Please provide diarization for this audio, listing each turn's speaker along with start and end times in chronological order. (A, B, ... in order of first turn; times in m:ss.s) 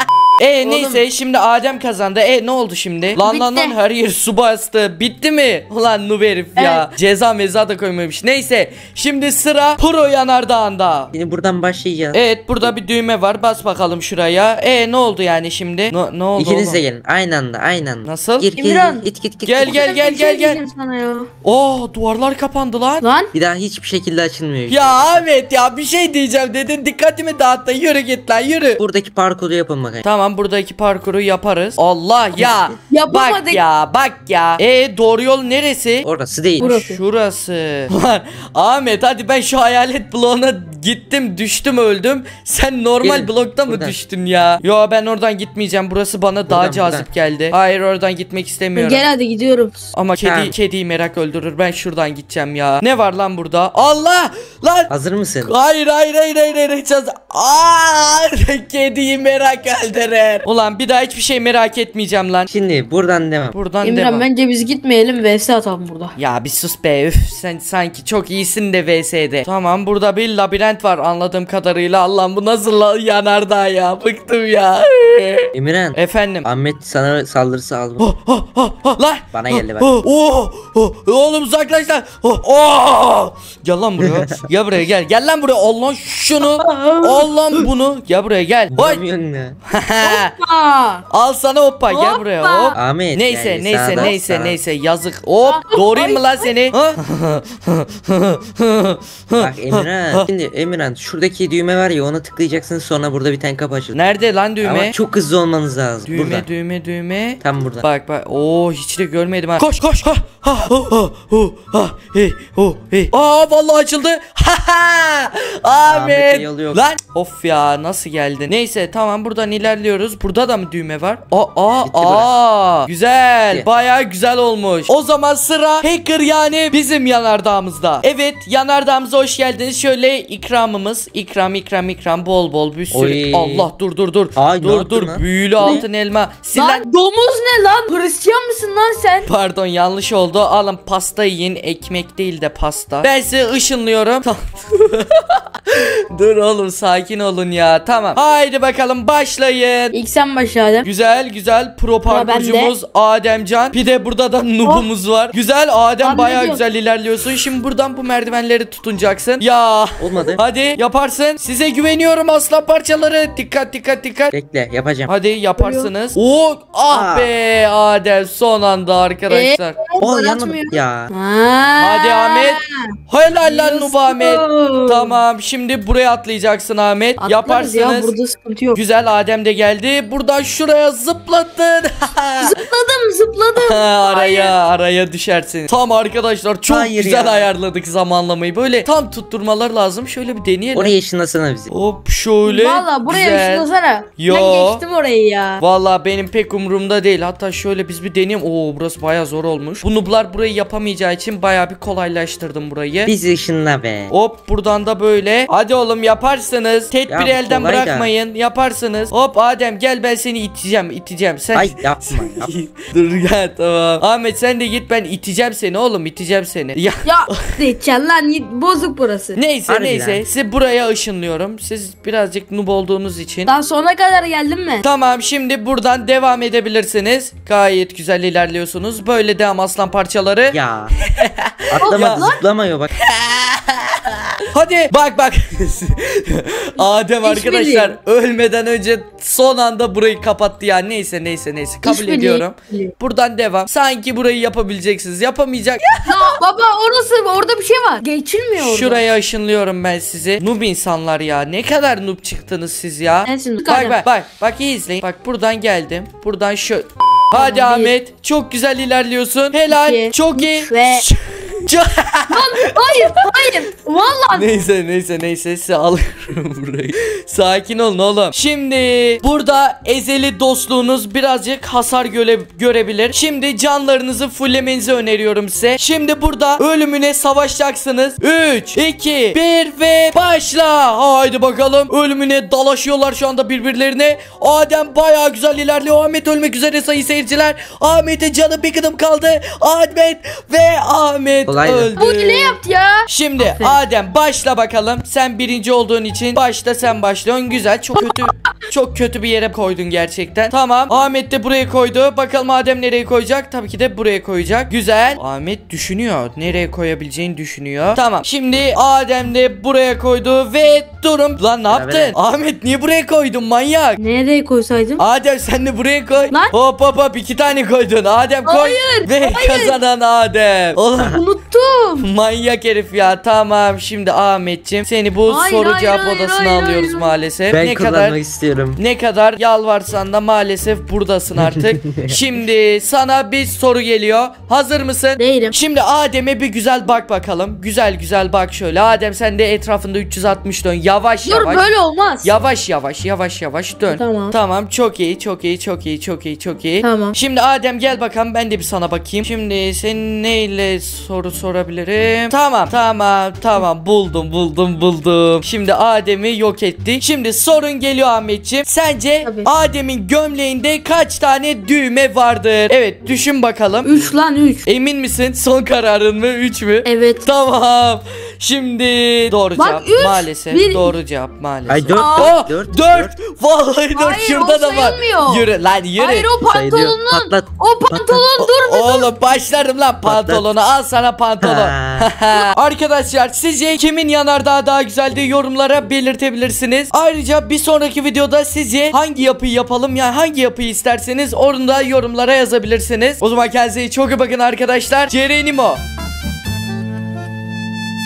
0:00.4-0:11.1 A
0:00.6-0:01.0 B
0:03.2-0:03.8 B
0:06.6-0:06.8 B
0:11.1-0:12.7 C
0:12.1-0:16.8 A
0:16.4-0:19.9 C
0:18.0-0:18.5 A
0:18.6-0:19.1 B
0:19.4-0:20.6 A
0:19.6-0:21.3 B
0:21.4-0:23.0 A
0:23.0-0:23.3 B
0:23.3-0:25.3 C
0:24.7-0:28.8 A
0:28.8-0:30.0 C
0:30.0-0:36.1 A
0:32.4-0:32.8 C
0:32.9-0:33.6 B
0:36.0-0:36.7 C
0:36.6-0:49.1 A
0:36.6-0:37.0 B
0:43.0-0:44.0 C
0:46.5-0:47.1 C
0:48.8-0:49.9 B
0:49.9-0:54.9 A
0:50.2-0:50.5 C
0:54.9-0:55.6 C
0:55.4-1:02.5 A
1:02.5-1:03.6 C
1:03.5-1:04.3 A
1:03.8-1:06.2 B
1:06.2-1:16.5 A
1:15.6-1:18.1 C
1:18.0-1:29.0 A
1:19.3-1:19.9 C
1:24.0-1:24.4 C
1:26.4-1:27.3 B
1:28.7-1:29.6 C
1:29.7-1:30.3 A
1:30.0-1:31.0 B
1:31.1-1:40.3 A
1:31.9-1:32.8 B
1:32.7-1:34.6 C
1:35.4-1:36.5 B
1:39.4-1:44.0 C
1:43.9-1:45.0 A
1:44.6-1:46.5 C
1:46.1-2:16.9 A
1:47.4-1:47.9 C
1:55.9-1:56.8 C
2:01.8-2:02.3 C
2:12.9-2:13.7 C
2:14.4-2:15.9 C
2:15.6-2:15.9 B
2:16.6-2:19.3 B
2:19.3-2:30.0 A
2:29.9-2:30.9 B
2:30.8-2:44.4 A
2:32.1-2:32.8 B
2:36.0-2:36.6 B
2:40.0-2:40.4 C
2:44.3-2:45.1 C
2:45.1-2:49.8 A
2:45.6-2:45.9 B
2:46.9-2:47.3 C
2:49.3-2:52.9 B
2:50.0-2:51.1 C
2:51.8-2:58.1 A
2:53.4-2:55.2 B
2:57.2-2:58.8 B
2:58.7-3:02.6 A
3:02.4-3:04.5 B
3:03.6-3:11.0 A
3:06.7-3:07.5 C
3:10.7-3:11.7 C
3:11.7-3:14.8 A
3:12.4-3:15.6 B
3:15.6-3:23.1 A
3:23.1-3:24.1 C
3:24.1-3:37.6 A
3:27.1-3:28.1 C
3:31.5-3:32.5 C
3:37.0-3:39.4 B
3:39.4-3:43.5 A
3:39.7-3:40.2 C
3:43.5-3:44.8 B
3:44.8-3:50.6 A
3:50.5-3:50.9 C
3:51.1-3:52.3 A
3:51.7-3:52.9 C
3:51.8-3:52.4 B
3:53.0-3:53.9 A
3:54.5-4:06.0 A
3:56.8-3:58.0 B
4:01.8-4:02.9 B
4:06.0-4:09.0 B
4:08.6-4:23.2 A
4:13.3-4:14.0 B
4:17.3-4:17.9 B
4:19.7-4:21.1 B
4:22.3-4:24.5 B
4:24.3-5:14.0 A
4:51.5-4:51.9 C
4:52.0-4:53.8 B
5:11.7-5:12.2 C
5:14.0-5:15.0 B
5:15.0-5:21.2 A
5:18.5-5:19.8 B
5:21.0-5:21.2 C
5:21.0-5:22.1 B
5:22.0-5:28.2 A
5:25.3-5:27.2 B
5:27.5-5:28.8 C
5:28.8-5:41.7 A
5:31.4-5:32.2 C
5:35.2-5:35.6 B
5:41.2-5:42.3 B
5:42.2-6:03.9 A
5:43.9-5:44.4 B
5:46.8-5:47.2 B
5:59.2-5:59.5 B
6:03.8-6:04.6 B
6:04.6-6:16.3 A
6:06.8-6:07.3 B
6:09.6-6:10.9 B
6:11.7-6:13.2 C
6:11.9-6:12.3 B
6:14.0-6:19.1 B
6:16.4-6:18.3 C
6:18.4-6:35.8 A
6:20.0-6:20.5 C
6:21.4-6:22.1 C